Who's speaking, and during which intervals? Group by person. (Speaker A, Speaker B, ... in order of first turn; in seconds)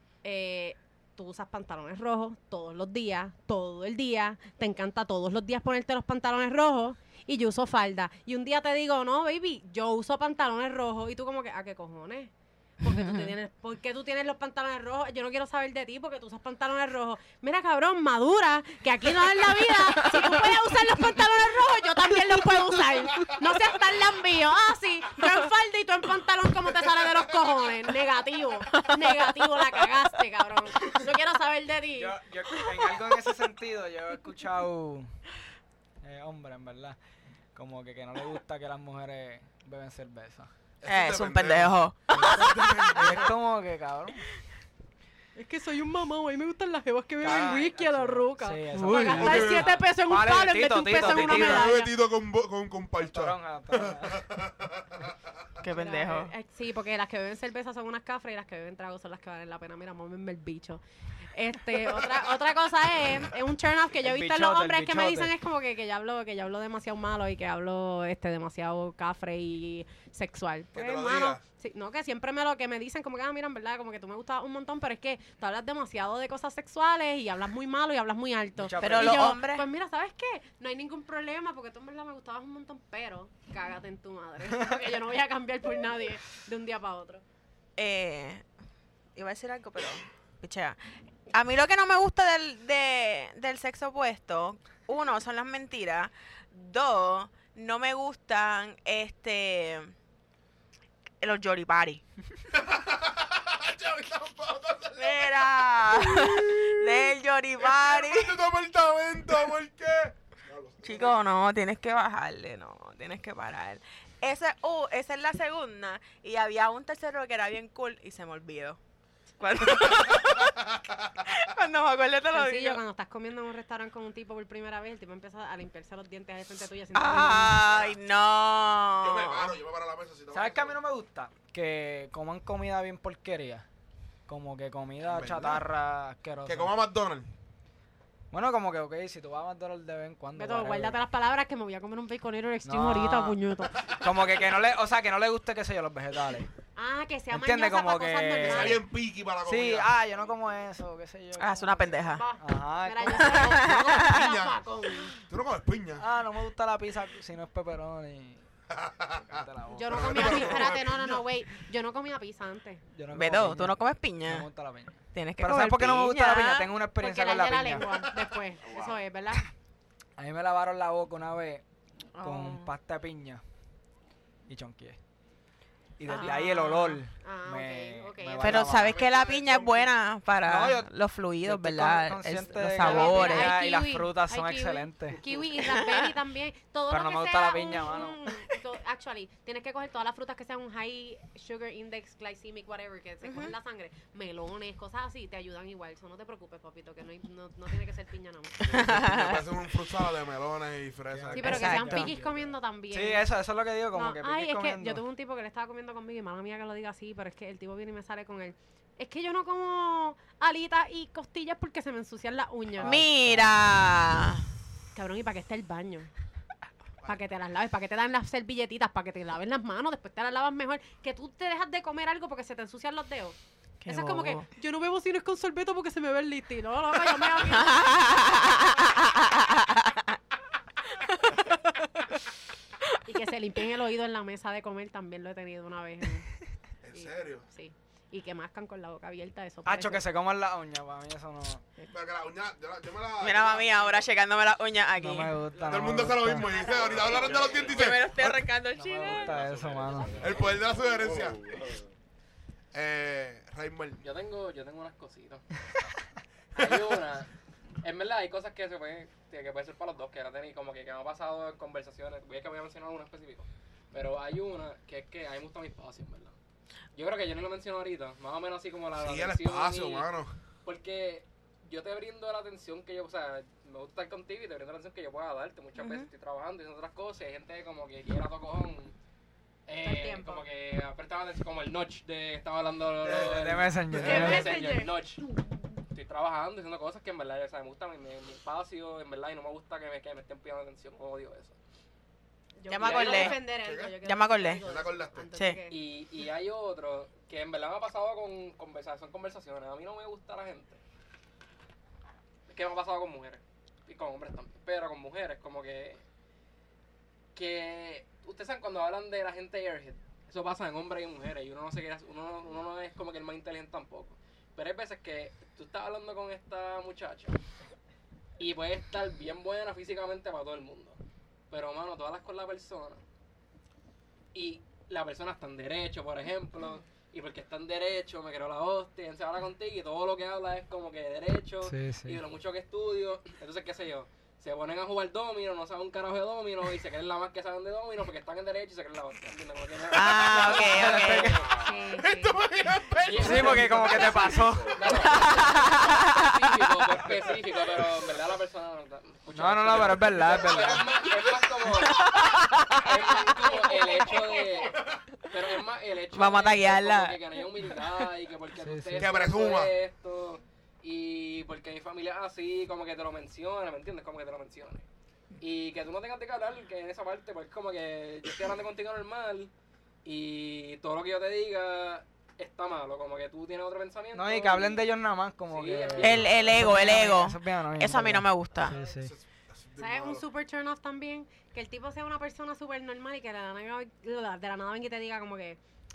Speaker A: 0.2-32.2, 45.4-51.9, 55.7-60.8, 61.3-87.2, 122.3-127.7, 140.3-143.7, 146.8-148.8, 152.0-155.2, 159.7-162.8, 167.0-169.5, 176.1-178.8, 182.8-198.7, 201.3-203.3, 203.9-213.0, 214.9-216.1, 217.1-228.3, 233.1-236.3, 236.9-240.1, 279.8-280.5, 284.0-285.0, 292.6-295.8, 341.5-342.4, 379.8-385.6
Speaker B: 12.8-13.3, 19.6-20.6, 28.7-29.5, 40.9-42.5, 48.7-49.2, 55.6-56.3, 78.8-79.7, 87.8-88.5, 89.2-90.8, 91.3-99.9, 101.2-102.0, 105.0-108.4, 110.8-118.8, 119.4-120.6, 121.3-122.8, 126.9-129.5, 151.4-152.3, 153.3-154.2, 163.1-164.5, 165.1-166.7, 172.2-172.7, 176.1-176.3, 178.4-183.6, 185.6-186.1, 193.2-193.5, 198.7-199.4, 201.4-202.1, 212.8-214.5, 223.8-224.5, 227.4-230.2, 231.0-231.5, 243.2-245.3, 247.2-249.4, 275.8-276.1, 292.7-293.4, 294.0-294.6, 339.9-341.5, 344.9-346.3, 351.7-353.6, 356.1-357.2, 376.0-378.8
Speaker C: 27.0-27.3, 40.8-43.3, 49.2-49.7, 51.0-55.3, 70.7-71.4, 102.5-111.2, 119.6-121.5, 127.7-128.0, 129.0-130.8, 135.1-135.7, 136.5-137.3, 148.4-149.9, 153.1-156.1, 158.7-161.2, 178.8-179.9, 198.6-202.1, 236.8-237.5, 241.9-244.0, 245.6-248.4, 250.2-251.6, 252.7-254.0, 269.0-270.4, 283.0-284.3, 293.5-294.0, 294.6-295.3, 341.9-344.9, 359.0-359.7, 378.7-380.2
Speaker D: 31.9-35.1, 36.0-37.0, 37.5-40.5, 42.1-44.2, 47.2-51.7, 53.0-54.3, 64.0-65.3, 78.6-79.3, 130.3-133.7, 134.3-136.7, 138.3-141.0, 142.7-143.4, 143.9-146.5, 147.3-148.8, 149.4-153.4, 156.0-158.4, 159.3-160.7, 162.9-167.9, 170.2-171.6, 172.2-173.4, 174.5-175.0, 176.0-179.0, 180.4-180.9, 181.4-185.2, 186.9-188.3, 201.1-202.4, 202.9-205.0, 212.8-213.6, 239.7-241.6, 245.0-246.5, 248.2-250.3, 283.1-284.7, 331.6-332.2, 340.5-341.5, 343.2-344.8, 349.3-350.9, 358.6-359.1, 374.1-379.1
Speaker E: 246.9-247.7, 249.0-250.7, 254.0-255.4, 256.6-257.3, 257.8-266.4, 266.9-270.1, 270.6-278.9, 279.7-285.2, 285.9-291.6, 292.8-293.4, 295.7-300.8, 302.5-306.0, 307.4-317.4, 318.4-321.0, 321.5-323.0, 324.3-341.4, 343.0-352.1, 352.8-364.9, 365.4-369.5, 370.0-374.9, 375.5-376.8